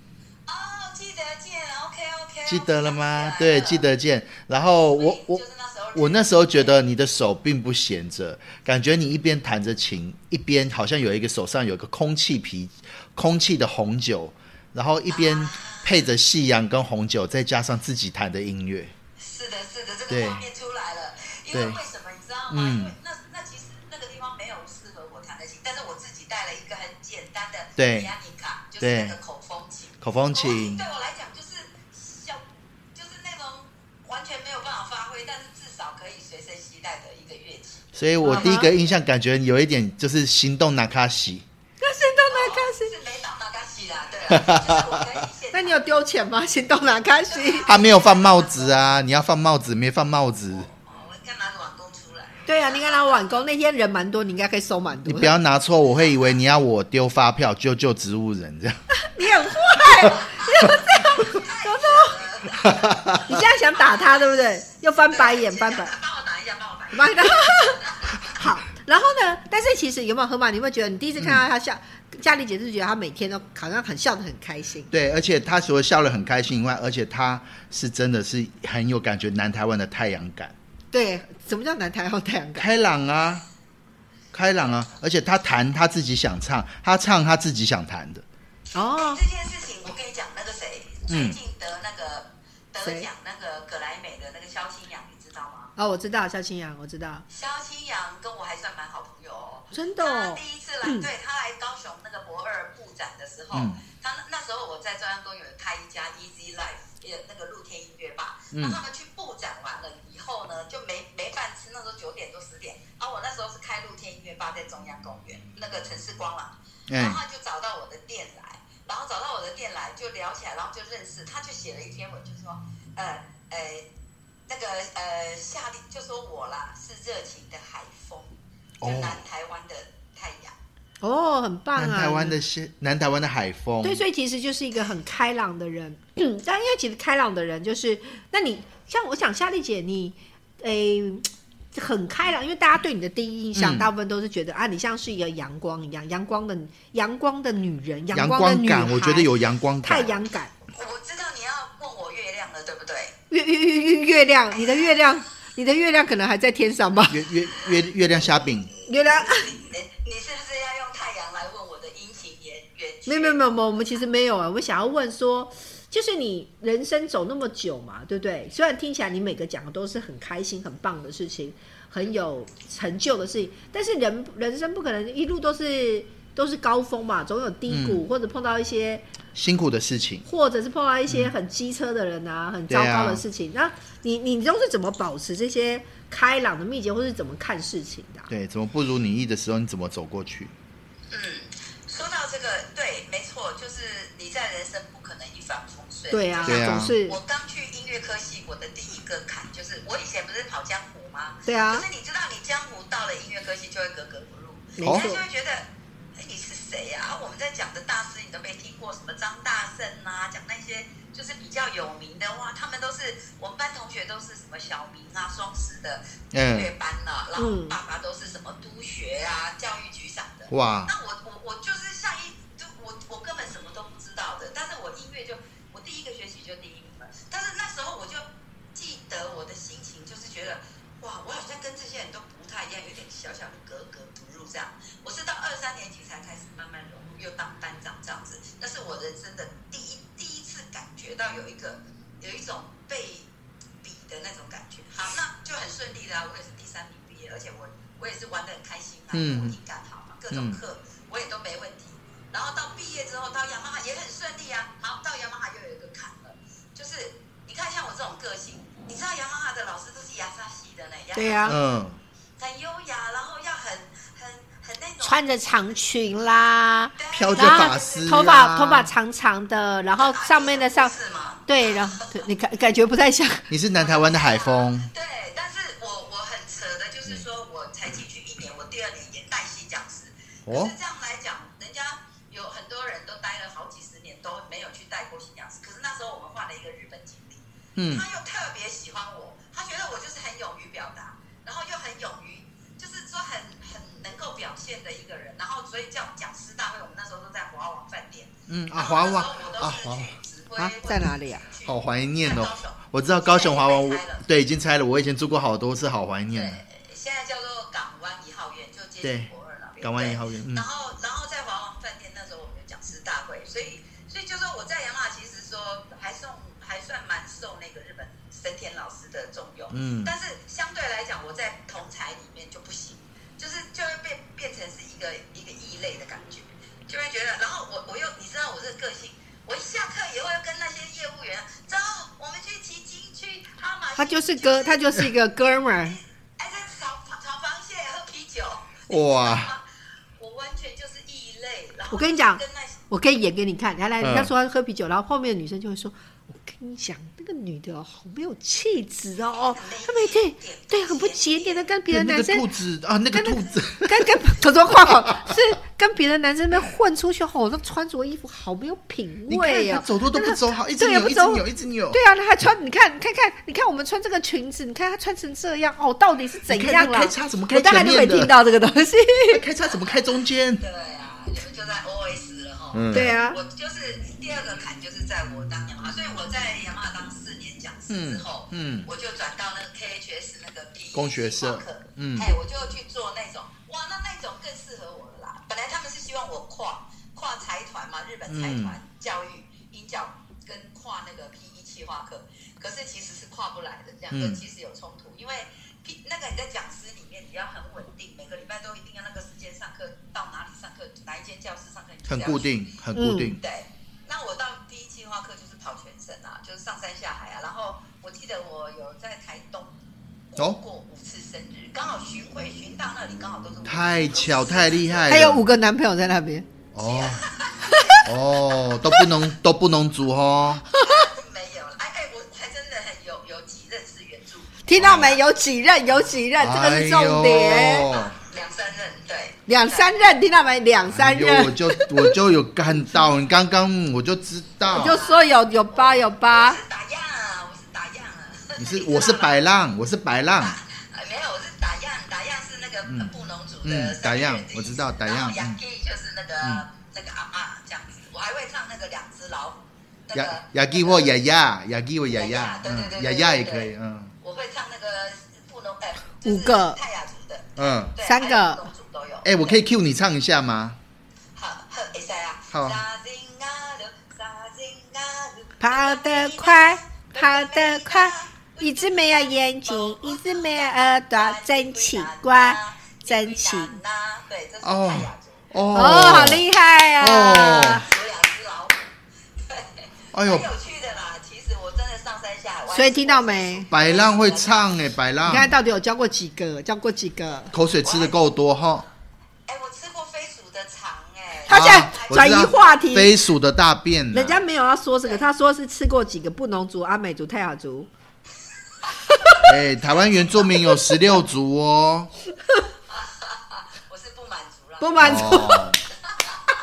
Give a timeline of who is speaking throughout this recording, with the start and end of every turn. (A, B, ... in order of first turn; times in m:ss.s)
0:00.5-0:03.8 A
0:02.4-0:05.4 B
0:04.9-0:06.7 A
0:05.9-0:18.9 B
0:15.1-0:16.0 A
0:19.2-0:37.8 A
0:20.1-0:20.4 B
0:21.5-0:21.8 B
0:22.5-0:22.9 B
0:27.8-0:28.1 B
0:28.8-0:29.2 B
0:30.0-0:30.8 B
0:37.9-0:41.4 B
0:38.2-0:38.7 C
0:41.8-0:42.9 C
0:42.3-0:45.8 A
0:44.3-0:45.0 B
0:45.5-0:47.7 C
0:47.3-0:48.8 A
0:47.6-0:50.7 B
0:50.5-0:53.1 A
0:52.5-0:55.3 C
0:55.0-0:58.8 B
0:59.0-1:02.2 C
1:01.1-1:08.3 A
1:02.6-1:03.2 B
1:03.2-1:06.0 C
1:06.9-1:14.9 C
1:14.9-1:20.5 B
1:20.9-1:22.7 C
1:22.6-1:23.4 B
1:24.3-1:28.2 B
1:28.7-1:29.2 C
1:28.8-1:35.7 A
1:31.1-1:31.4 B
1:35.8-1:37.2 C
1:37.3-2:03.9 A
1:39.7-1:41.1 C
1:43.5-1:43.8 B
1:48.5-1:48.8 B
1:56.9-1:57.2 B
2:04.5-2:10.5 A
2:08.8-2:09.2 B
2:11.0-2:12.4 C
2:11.8-2:14.0 B
2:13.8-2:29.3 C
2:23.5-2:23.9 B
2:28.1-2:30.2 B
2:29.8-2:30.5 C
2:30.7-2:33.2 A
2:33.3-2:37.2 C
2:37.1-2:38.7 B
2:38.9-2:39.6 C
2:38.9-2:44.0 A
2:43.0-2:59.1 C
2:57.7-2:58.0 B
2:59.3-3:00.2 B
3:00.2-3:08.3 C
3:01.1-3:01.3 B
3:02.7-3:03.2 B
3:08.3-3:10.5 B
3:11.1-4:03.3 A
3:16.1-3:17.2 C
3:16.4-3:16.9 B
3:21.4-3:21.8 C
3:24.8-3:25.2 C
3:24.8-3:25.1 B
3:36.3-3:36.7 B
3:37.4-3:37.8 C
3:40.5-3:40.9 B
4:03.8-4:21.5 A
4:09.1-4:09.6 B
4:10.3-4:10.6 B
4:21.1-4:21.6 C
4:21.4-4:22.0 B
4:22.4-4:25.7 A
4:25.0-4:30.9 C
4:27.0-4:28.3 A
4:27.1-4:28.9 B
4:30.0-4:32.2 A
4:31.5-4:33.5 C
4:33.5-4:34.9 B
4:33.8-5:04.2 A
4:40.5-4:40.7 B
4:47.8-4:48.0 B
4:58.5-5:00.2 B
5:00.6-5:01.5 C
5:01.6-5:06.6 B
5:06.3-5:35.0 A
5:09.0-5:09.3 B
5:09.8-5:10.7 B
5:19.7-5:20.1 B
5:34.0-5:36.0 C
5:35.7-5:39.6 A
5:38.9-5:39.5 B
5:40.2-5:42.8 A
5:41.9-5:52.5 C
5:44.0-5:44.3 B
5:49.6-5:51.7 A
5:51.9-5:54.2 B
5:53.1-6:09.4 C
5:59.3-6:02.0 B
6:06.5-6:08.3 B
6:09.3-6:10.6 B
6:09.6-6:10.1 A
6:10.6-6:42.6 A
6:12.7-6:13.2 B
6:12.9-6:13.4 C
6:17.9-6:18.9 B
6:20.9-6:22.4 B
6:28.3-6:28.8 B
6:34.1-6:34.4 B
6:42.1-6:43.4 B
6:42.9-6:43.4 C
6:43.4-6:49.8 A
6:50.3-6:55.2 A
6:53.6-6:55.4 B
6:55.1-6:56.5 C
6:56.7-6:57.2 B
6:56.8-6:57.9 A
6:57.7-6:58.0 C
6:58.0-7:00.6 B
7:00.7-7:01.1 C
7:00.7-7:04.6 A
7:04.6-7:07.9 C
7:04.8-7:05.2 B
7:06.4-7:08.2 B
7:07.9-7:10.0 A
7:09.5-7:12.2 C
7:10.9-7:15.0 B
7:14.7-7:19.4 A
7:14.7-7:16.6 C
7:18.6-7:20.6 B
7:20.4-7:31.1 A
7:22.9-7:25.6 B
7:30.1-7:34.1 B
7:32.1-7:39.6 A
7:36.2-7:36.8 C
7:37.6-7:37.9 B
7:38.0-7:38.6 C
7:39.2-7:40.8 B
7:41.3-7:55.5 A
7:42.5-7:42.8 B
7:45.6-7:53.8 C
7:54.6-7:56.4 B
7:55.7-7:57.8 C
7:57.0-7:57.8 B
7:57.7-7:58.9 A
7:59.4-8:04.7 A
8:00.1-8:00.5 B
8:02.7-8:03.7 C
8:03.7-8:05.6 B
8:05.2-8:07.5 C
8:07.5-8:08.9 B
8:07.8-8:08.2 A
8:09.5-8:12.6 A
8:11.5-8:13.1 C
8:11.5-8:14.4 B
8:14.1-8:17.9 C
8:19.4-8:22.1 B
8:19.8-8:20.6 A
8:22.9-8:26.4 A
8:24.8-8:25.7 C
8:25.0-8:25.8 B